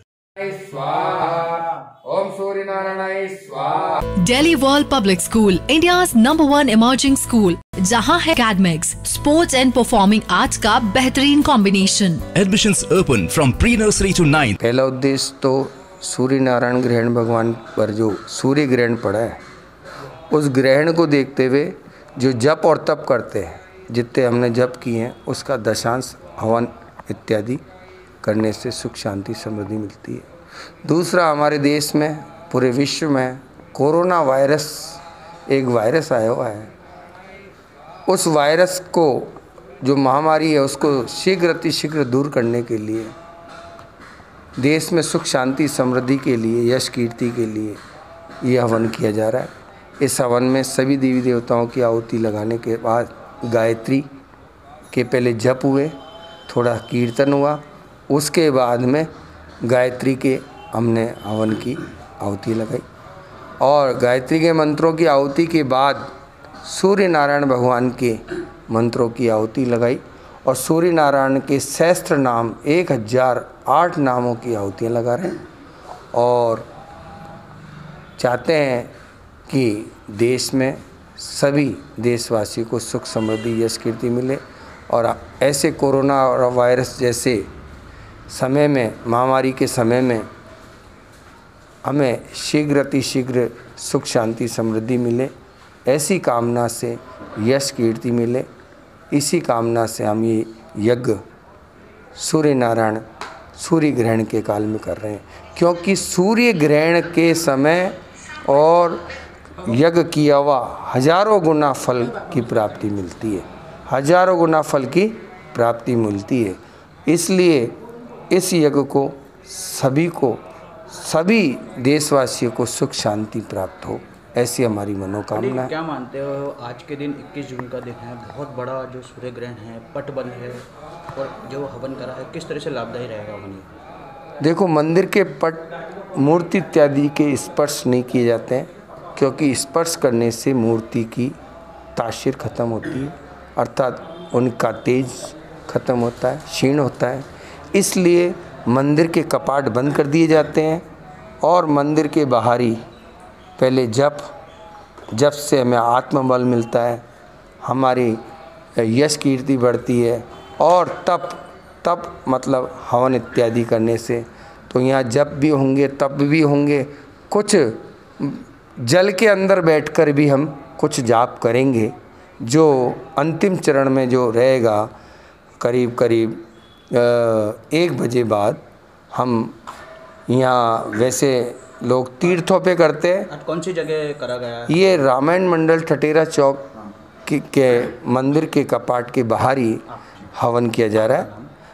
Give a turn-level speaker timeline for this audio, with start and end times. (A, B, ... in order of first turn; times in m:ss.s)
0:00.4-0:04.0 A
0:04.2-0:12.3 B
0:12.4-0:14.6 C
0:14.6-0:19.4 A
0:20.3-0:27.6 A
0:28.2-0:30.3 A
0:30.8-0:36.7 A
0:38.1-0:43.1 A
0:44.6-0:47.8 A
0:48.4-0:54.1 A
0:54.9-0:55.9 A
0:56.5-0:59.1 A
0:59.6-1:02.8 A
1:03.6-1:06.1 A
1:06.6-1:15.4 A
1:16.1-1:16.6 A
1:18.2-1:18.9 A
1:19.5-1:27.5 A
1:28.3-1:30.3 A
1:31.8-1:35.3 A
1:35.9-1:38.5 A
1:39.1-1:41.2 A
1:42.1-1:43.0 A
1:43.6-1:49.0 A
1:49.6-1:57.8 A
1:58.3-2:05.7 A
2:05.3-2:13.7 D
2:14.4-2:21.4 A
2:22.0-2:30.8 A
2:31.4-2:32.8 A
2:33.6-2:34.2 A
2:35.1-2:37.0 A
2:37.6-2:38.2 A
2:38.8-2:54.9 A
2:55.6-2:58.6 A
2:59.1-2:59.6 A
3:00.3-3:03.3 A
3:03.3-3:04.9 D
3:04.7-3:06.7 A
3:07.2-3:11.3 A
3:09.9-3:10.2 D
3:10.9-3:11.5 D